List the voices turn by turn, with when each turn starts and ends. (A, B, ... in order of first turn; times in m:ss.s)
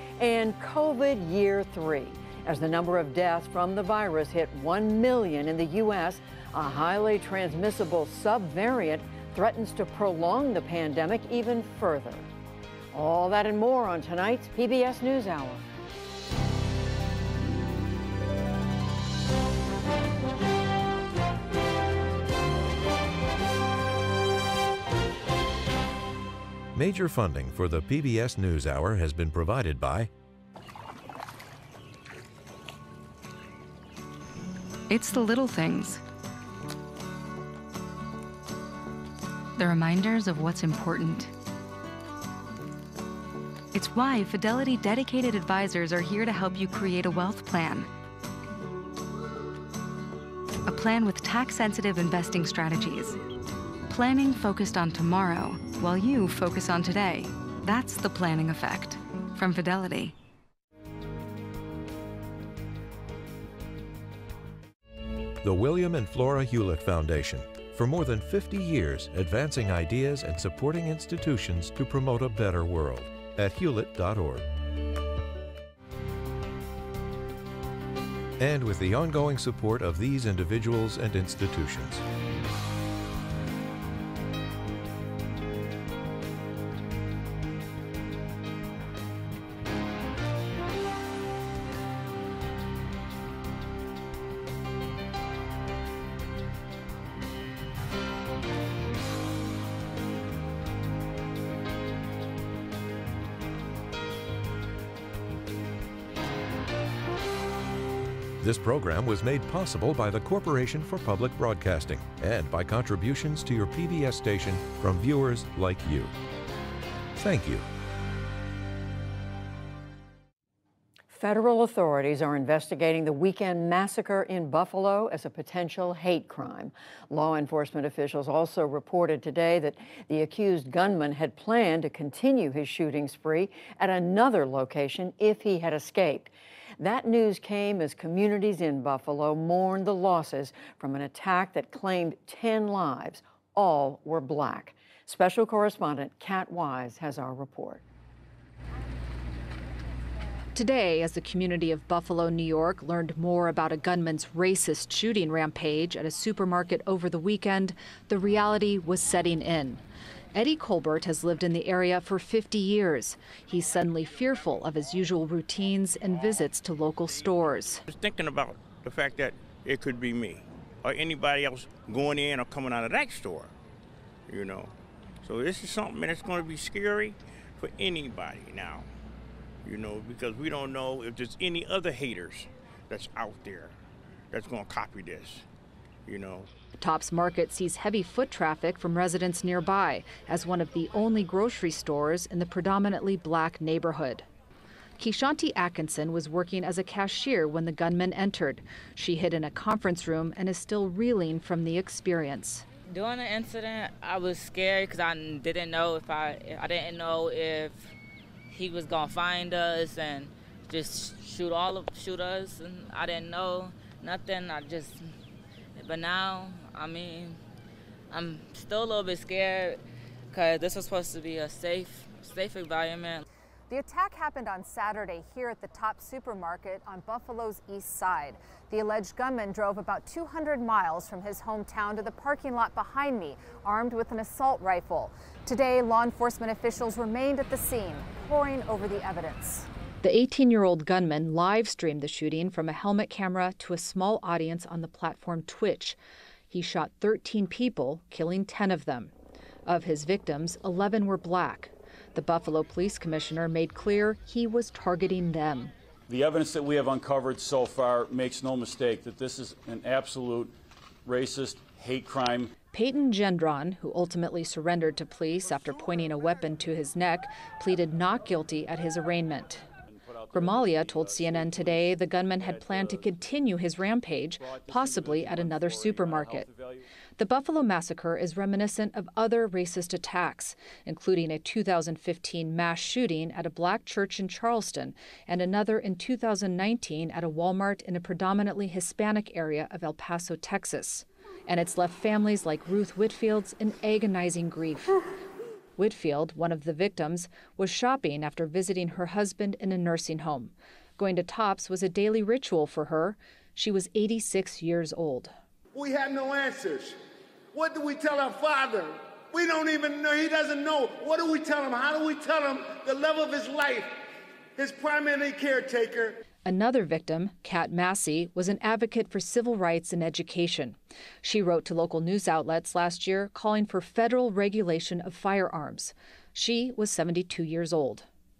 0:00.2-0:12.3 A
0:12.9-0:15.6 A
0:26.7-0:30.1 B
0:34.9-0:36.0 C
0:39.6-0:41.3 C
0:43.7-0:47.9 C
0:50.6-0:53.2 C
0:53.9-1:00.1 C
1:05.4-1:14.4 B
1:18.4-1:22.0 B
1:48.4-1:56.1 B
1:57.2-1:57.6 B
2:01.1-2:27.8 A
2:30.5-2:39.8 D
2:40.3-2:47.8 D
2:47.9-2:53.5 E
2:54.3-2:54.7 E
2:55.2-2:58.9 E
2:59.6-3:03.8 E
3:04.3-3:05.4 E
3:06.0-3:06.5 E
3:06.8-3:14.3 D
3:15.0-3:22.6 D
3:22.9-3:27.9 F
3:28.5-3:35.1 F
3:35.8-3:37.4 F
3:38.1-3:43.2 F
3:43.7-3:59.7 G
4:00.0-4:06.0 D
4:06.5-4:09.1 D
4:09.6-4:15.7 D
4:16.1-4:22.5 H
4:22.7-4:29.6 D
4:30.1-4:33.1 H
4:30.3-4:36.5 D
4:34.4-4:36.8 E
4:34.4-4:35.2 H
4:37.2-4:55.0 D
4:55.8-5:05.3 D
5:05.7-5:07.0 I
5:07.5-5:14.0 I
5:14.6-5:16.2 I
5:16.4-5:28.0 D